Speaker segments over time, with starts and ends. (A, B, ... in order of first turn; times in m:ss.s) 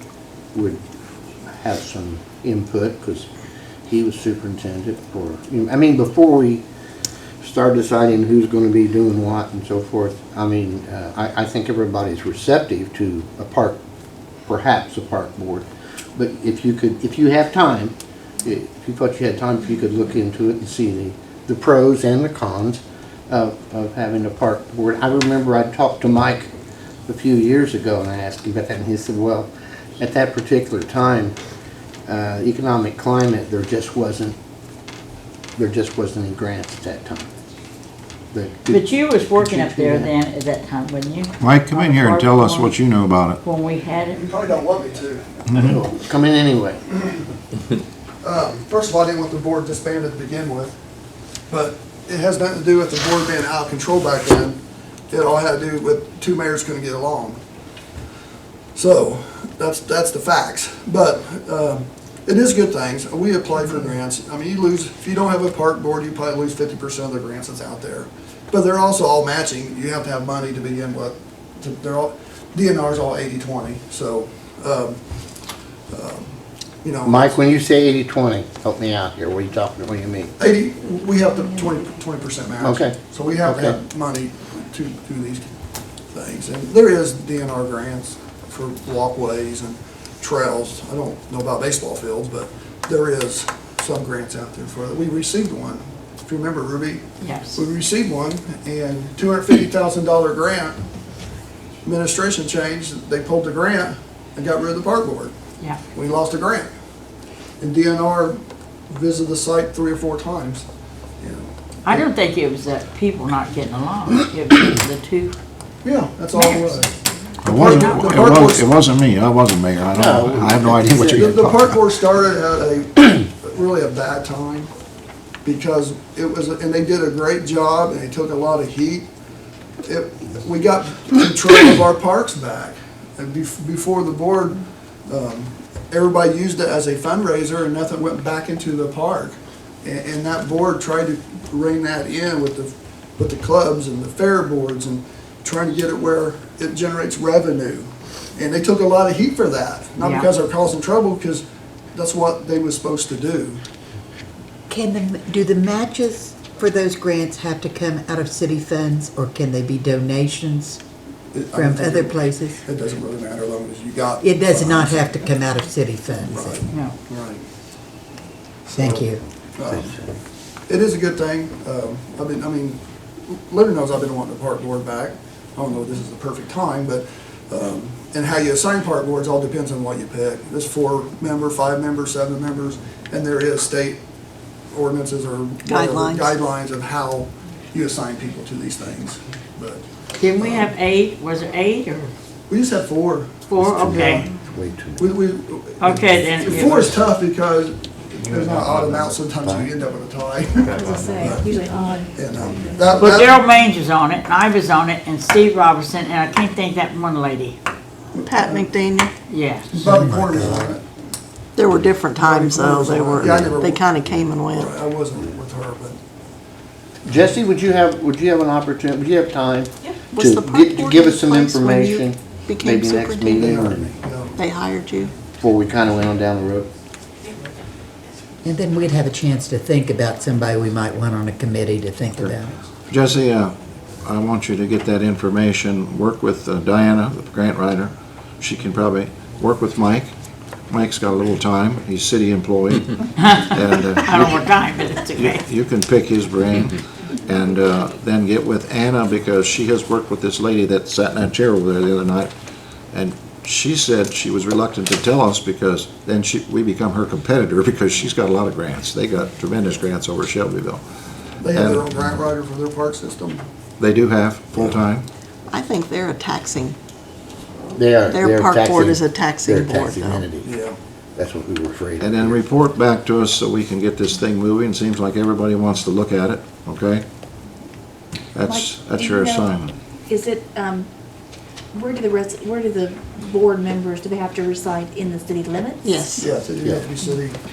0:00.5-0:00.8 A
0:01.6-0:03.3 A
0:03.9-0:06.6 A
0:07.4-0:13.8 A
0:14.5-0:26.5 A
0:27.1-0:31.4 A
0:32.1-0:34.4 A
0:35.6-0:37.3 A
0:38.3-0:40.1 A
0:38.7-0:42.8 B
0:41.4-0:43.4 C
0:43.4-0:44.2 B
0:44.1-0:45.7 D
0:45.5-0:45.8 C
0:45.6-0:46.8 A
0:48.2-0:50.8 D
0:51.5-0:54.6 D
0:55.1-0:57.4 D
0:58.8-1:15.0 D
1:15.9-1:16.3 D
1:16.8-1:17.4 D
1:17.0-1:20.3 A
1:20.4-1:25.5 D
1:22.6-1:23.8 A
1:26.1-1:40.8 D
1:37.2-1:37.6 B
1:41.8-1:45.3 D
1:45.9-1:46.7 D
1:47.6-1:50.7 D
1:51.2-1:52.1 D
1:51.8-1:55.4 B
1:55.8-1:56.9 D
1:56.3-1:56.8 B
1:57.4-2:01.7 C
1:57.5-1:58.7 D
1:57.5-1:58.3 B
1:59.9-2:01.6 A
2:01.0-2:04.7 D
2:05.4-2:09.1 D
2:09.8-2:33.6 D
2:30.0-2:30.3 B
2:34.7-2:40.8 E
2:41.3-2:45.3 D
2:41.5-2:42.6 E
2:44.2-2:46.7 E
2:46.2-2:47.4 D
2:46.7-2:47.0 B
2:48.7-2:49.9 D
2:48.7-2:49.2 E
2:49.6-2:50.2 A
2:50.7-3:04.0 D
3:04.7-3:10.7 D
3:05.7-3:06.3 F
3:10.2-3:12.1 B
3:12.5-3:14.3 D
3:13.5-3:14.2 B
3:13.7-3:15.2 A
3:15.0-3:21.5 D
3:15.8-3:17.0 B
3:15.9-3:16.9 A
3:18.2-3:19.7 A
3:20.6-3:21.4 A
3:20.8-3:22.8 G
3:22.1-3:23.4 D
3:23.0-3:27.6 B
3:28.1-3:28.7 D
3:28.2-3:29.1 F
3:29.3-3:29.7 B
3:29.7-3:30.8 D
3:29.7-3:30.7 E
3:31.6-3:34.8 F
3:32.1-3:33.9 D
3:33.2-3:33.5 A
3:34.5-3:36.0 D
3:37.0-3:43.9 A
3:40.1-3:43.5 F
3:43.3-3:44.4 D
3:44.4-3:45.1 F
3:45.4-3:46.7 A
3:48.4-3:52.6 E
3:52.2-4:00.2 C
4:00.7-4:04.5 C
4:03.2-4:05.5 B
4:05.2-4:12.3 C
4:12.9-4:20.8 C
4:21.4-4:23.4 D
4:21.5-4:21.9 C
4:23.8-4:25.1 C
4:25.5-4:26.8 F
4:27.7-4:30.5 A
4:28.1-4:30.3 F
4:30.4-4:30.8 D
4:31.2-4:32.4 A
4:32.0-4:37.0 C
4:38.3-4:39.7 C
4:38.5-4:39.5 G
4:40.1-4:40.9 G
4:41.7-4:46.1 G
4:45.8-4:46.2 F
4:46.2-4:47.4 D
4:46.6-4:46.9 A